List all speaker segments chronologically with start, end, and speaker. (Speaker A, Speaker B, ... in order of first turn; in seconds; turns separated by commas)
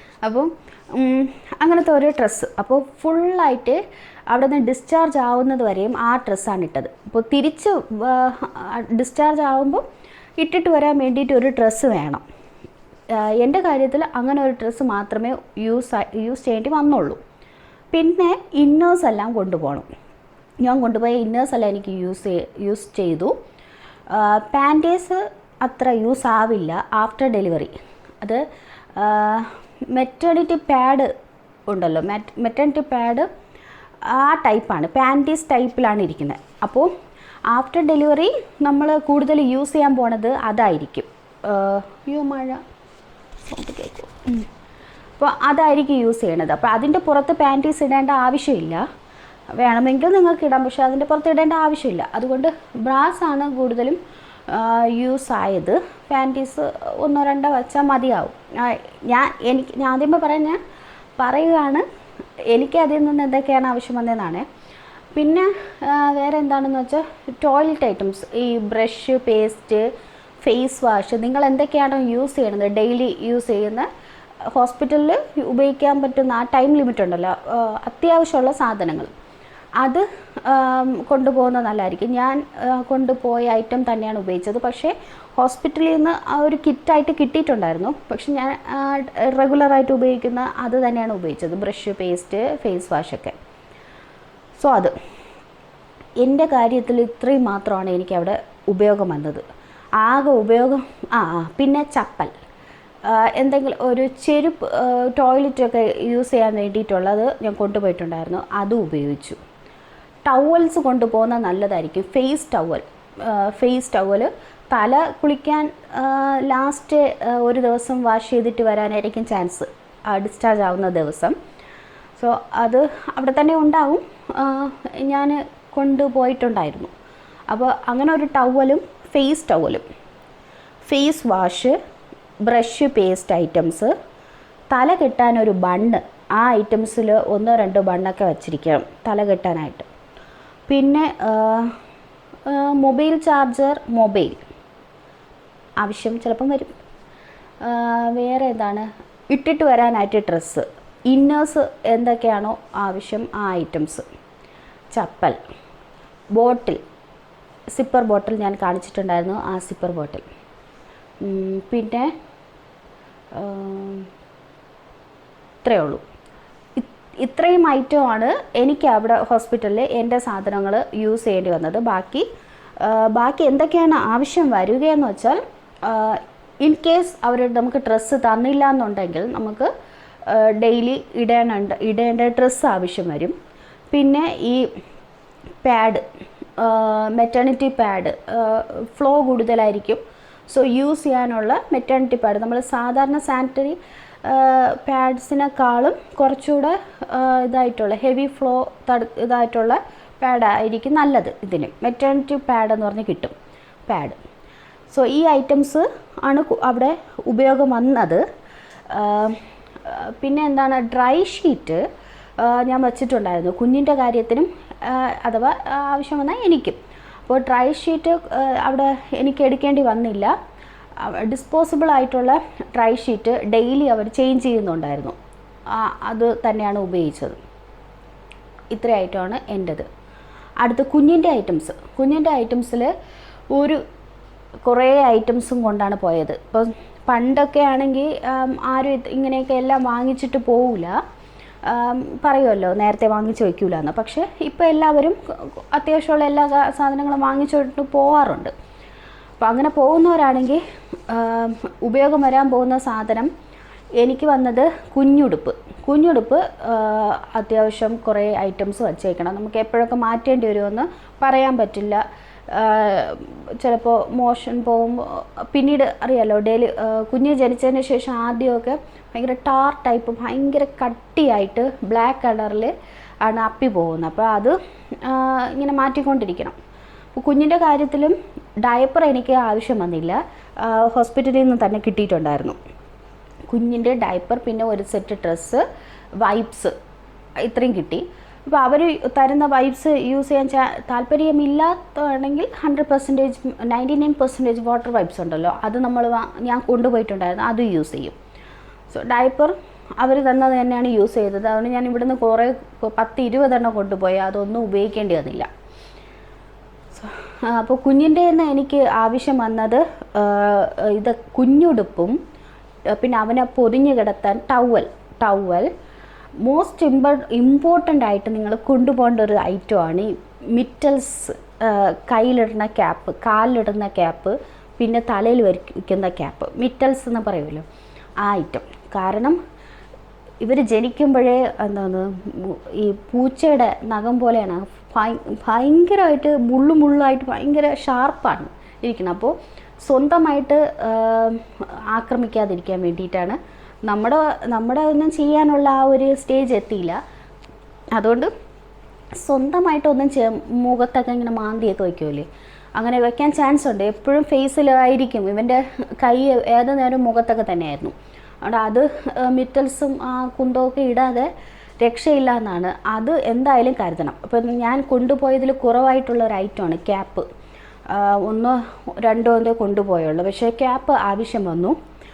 Speaker A: 0.2-9.8, Speaker A: 10.4-12.2, Speaker A: 13.1-17.2, Speaker A: 17.9-19.9, Speaker A: 20.6-23.4, Speaker A: 24.1-28.4, Speaker A: 28.9-31.1, Speaker A: 31.7-33.3, Speaker A: 34.0-36.9, Speaker A: 37.5-42.6, Speaker A: 43.5-44.5, Speaker A: 45.2-48.8, Speaker A: 49.5-60.6, Speaker A: 61.2-61.8, Speaker A: 62.5-64.5, Speaker A: 65.1-69.9, Speaker A: 70.4-73.9, Speaker A: 74.5-79.1, Speaker A: 79.8-93.4, Speaker A: 94.6-94.9, Speaker A: 96.2-99.4, Speaker A: 100.0-102.3, Speaker A: 103.0-109.4, Speaker A: 110.2-121.3, Speaker A: 122.2-126.9, Speaker A: 127.5-129.8, Speaker A: 130.8-131.8, Speaker A: 132.4-133.9, Speaker A: 134.7-139.9, Speaker A: 140.7-141.8, Speaker A: 142.4-144.4, Speaker A: 145.8-146.7, Speaker A: 147.6-154.1, Speaker A: 154.9-155.4, Speaker A: 156.3-156.8, Speaker A: 157.7-160.2, Speaker A: 161.2-162.1, Speaker A: 163.3-164.1, Speaker A: 165.6-166.0, Speaker A: 166.8-172.3, Speaker A: 172.8-179.7, Speaker A: 180.2-183.3, Speaker A: 183.9-184.7, Speaker A: 185.6-186.0, Speaker A: 186.6-203.3, Speaker A: 203.9-204.2, Speaker A: 204.9-208.2, Speaker A: 208.9-211.8, Speaker A: 212.4-220.3, Speaker A: 221.0-225.2, Speaker A: 225.7-227.4, Speaker A: 228.7-229.9, Speaker A: 230.6-232.9, Speaker A: 233.5-233.8, Speaker A: 234.7-241.0, Speaker A: 241.6-248.5, Speaker A: 249.4-253.3, Speaker A: 254.0-272.7, Speaker A: 273.2-276.6, Speaker A: 277.2-282.6, Speaker A: 283.5-285.6, Speaker A: 286.2-286.7, Speaker A: 287.4-298.1, Speaker A: 298.9-305.5, Speaker A: 306.9-312.1, Speaker A: 312.9-315.7, Speaker A: 316.4-327.6, Speaker A: 328.2-329.4, Speaker A: 330.4-339.3, Speaker A: 339.8-347.0, Speaker A: 347.9-348.3, Speaker A: 349.2-361.3, Speaker A: 361.8-367.3, Speaker A: 367.9-371.8